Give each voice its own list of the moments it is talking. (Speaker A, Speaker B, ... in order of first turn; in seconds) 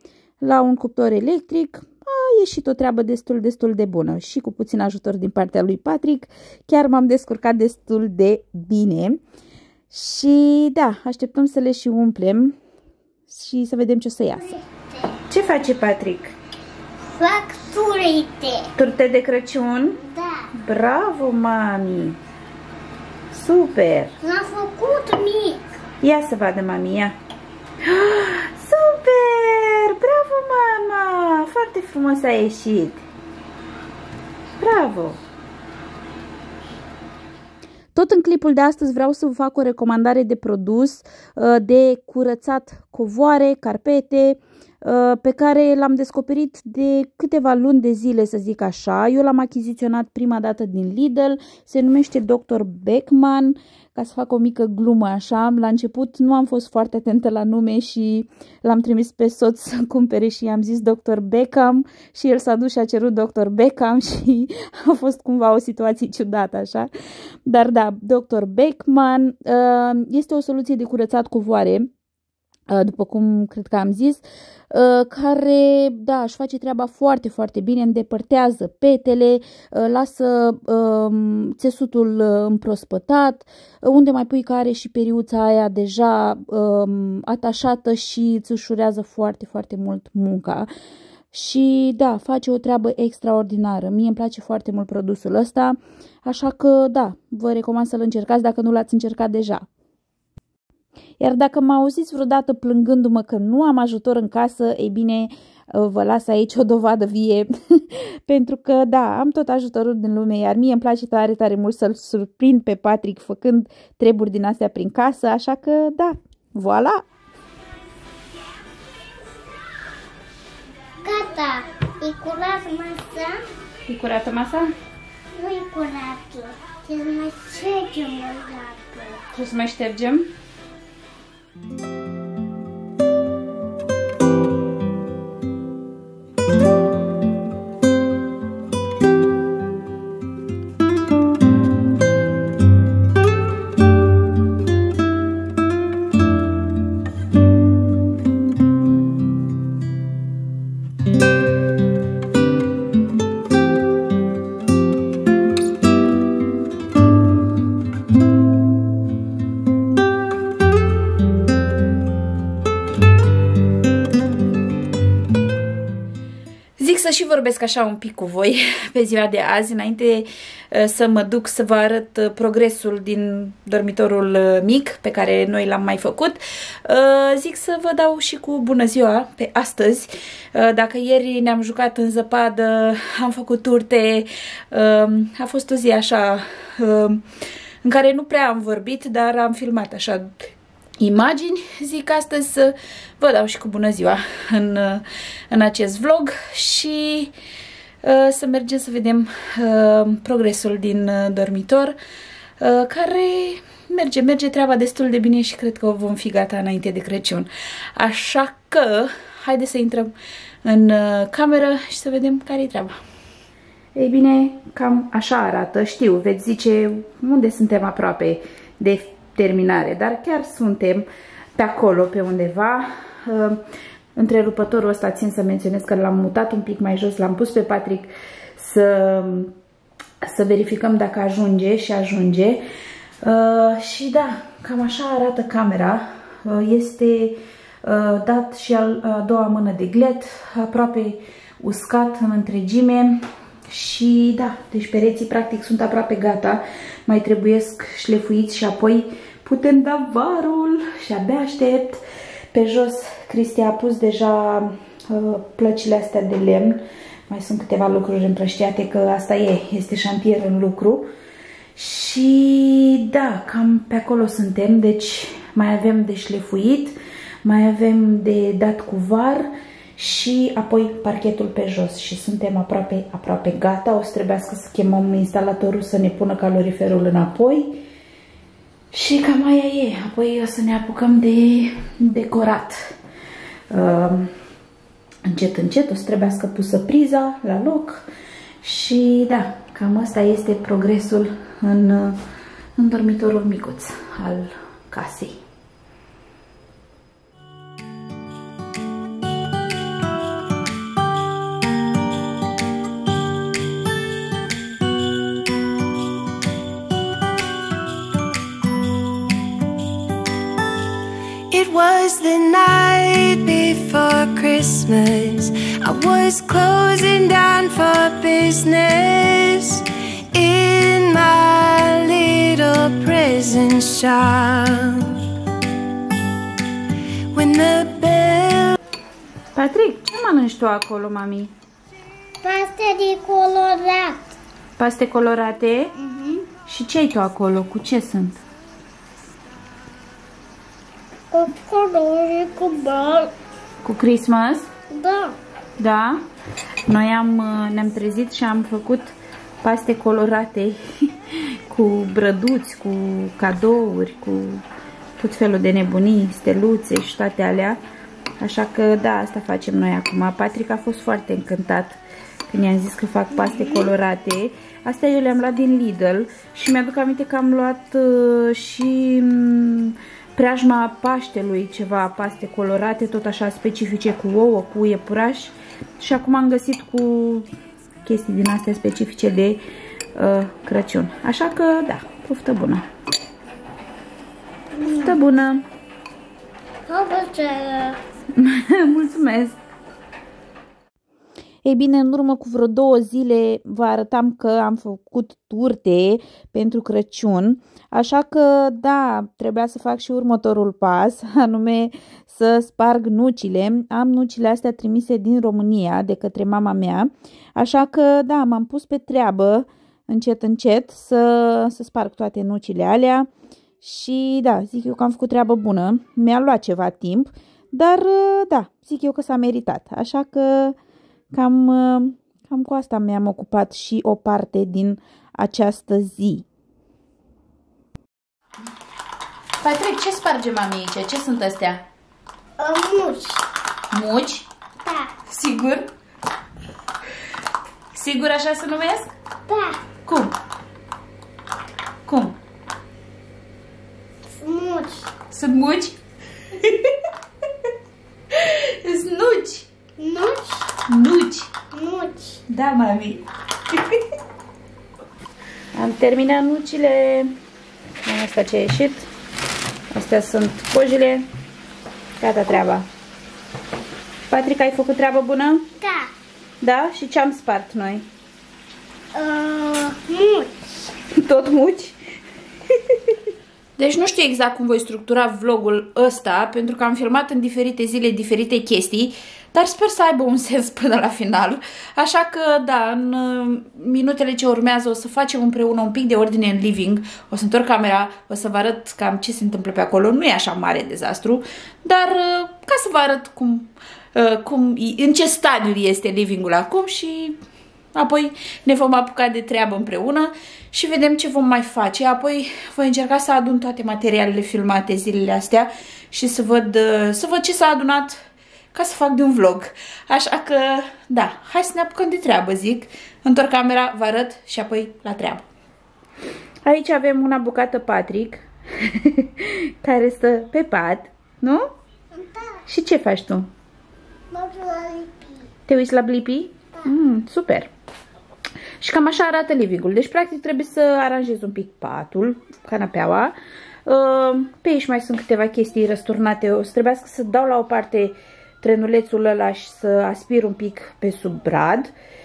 Speaker A: 0.4-9.2, 9.9-12.5, 13.3-14.6, 15.3-16.3, 18.7-20.0, 20.6-22.2, 23.3-24.1, 26.0-27.1, 27.8-33.0, 34.6-35.2, 37.9-66.9, 67.5-71.9, 72.7-90.7, 91.3-99.7, 101.2-117.0, 123.9-124.7, 129.3-130.3, 166.8-187.2, 187.8-190.3, 191.0-197.3, 198.0-201.9, 202.6-212.9, 213.9-223.6, 224.2-229.5, 230.2-232.6, 233.2-252.0, 252.5-261.1, 261.8-277.8, 278.9-282.8, 283.7-284.3, 285.2-288.0, 288.6-292.2, 292.8-295.4, 329.5-331.5, 334.8-335.9, 336.6-338.4, 343.8-344.7, 345.8-346.2, 346.9-349.1, 349.6-350.8, 351.3-354.6, 355.2-357.8, 358.4-377.5, 378.0-379.6, 380.1-382.8, 384.8-385.6, 388.4-389.6, 391.6-413.3, 413.8-420.8, 421.3-426.4, 429.6-431.8, 433.9-434.5, 435.3-435.9, 437.9-439.1, 440.0-440.3, 442.1-442.4, 445.3-446.0, 446.5-446.9, 448.3-449.7, 450.9-451.5, 452.5-453.2, 455.7-457.3, 458.0-459.1, 459.9-461.2, 462.2-462.9, 464.3-465.7, 466.6-468.1, 471.1-472.0, 473.8-497.4, 497.9-508.2, 508.7-515.4, 516.6-521.7, 522.6-523.5, 525.7-527.7, 528.8-533.3, 533.9-541.9
Speaker B: 14.5-15.2, 17.1-18.7, 20.1-20.4, 24.2-25.8, 121.0-123.4, 125.3-129.2, 332.4-334.2, 336.0-336.5, 341.3-343.3, 344.9-345.4, 363.4-363.9, 384.8-385.2, 386.9-388.0, 432.6-433.4, 434.8-435.1, 439.5-439.8, 444.3-445.1, 450.0-450.7, 451.7-452.4, 465.8-466.1, 469.1-470.5, 522.1-522.6, 524.3-525.4
Speaker C: 311.5-325.2, 327.3-328.8